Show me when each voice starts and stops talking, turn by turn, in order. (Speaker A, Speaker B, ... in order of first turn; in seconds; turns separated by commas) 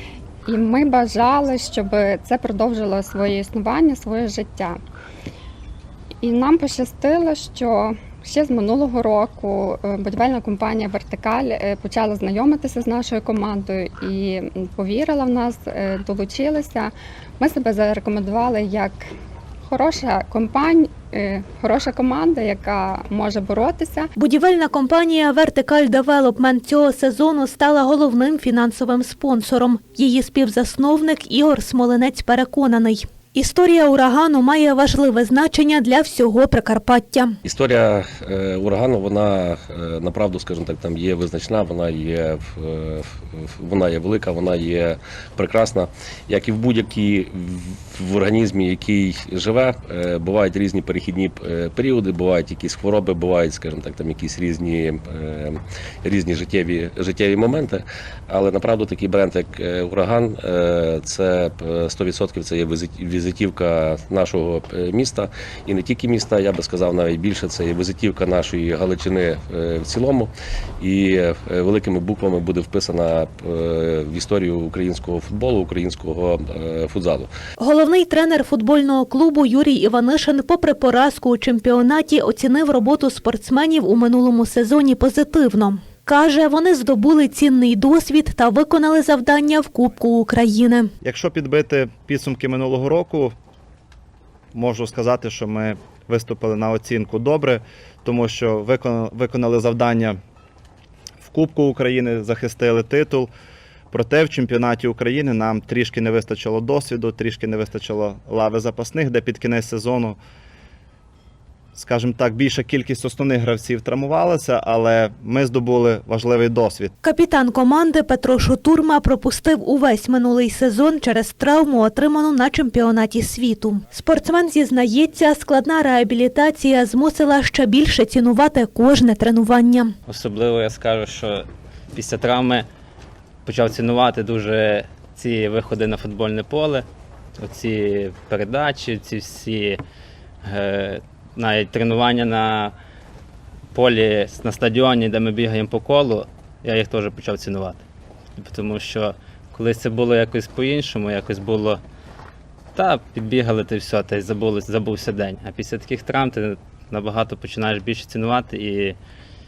Speaker A: 0.5-4.8, Speaker A: 6.2-19.1, Speaker A: 19.7-24.1, Speaker B: 24.2-37.4, Speaker C: 37.5-77.3, Speaker B: 77.6-90.9, Speaker D: 91.0-93.3, Speaker D: 94.5-100.2, Speaker D: 101.2-103.3, Speaker D: 103.9-110.2, Speaker D: 111.8-116.9, Speaker B: 117.0-129.9, Speaker E: 130.1-132.7, Speaker E: 133.4-136.9, Speaker E: 137.4-139.8, Speaker E: 140.4-142.8, Speaker E: 143.7-147.8, Speaker E: 148.4-151.8, Speaker E: 152.8-159.0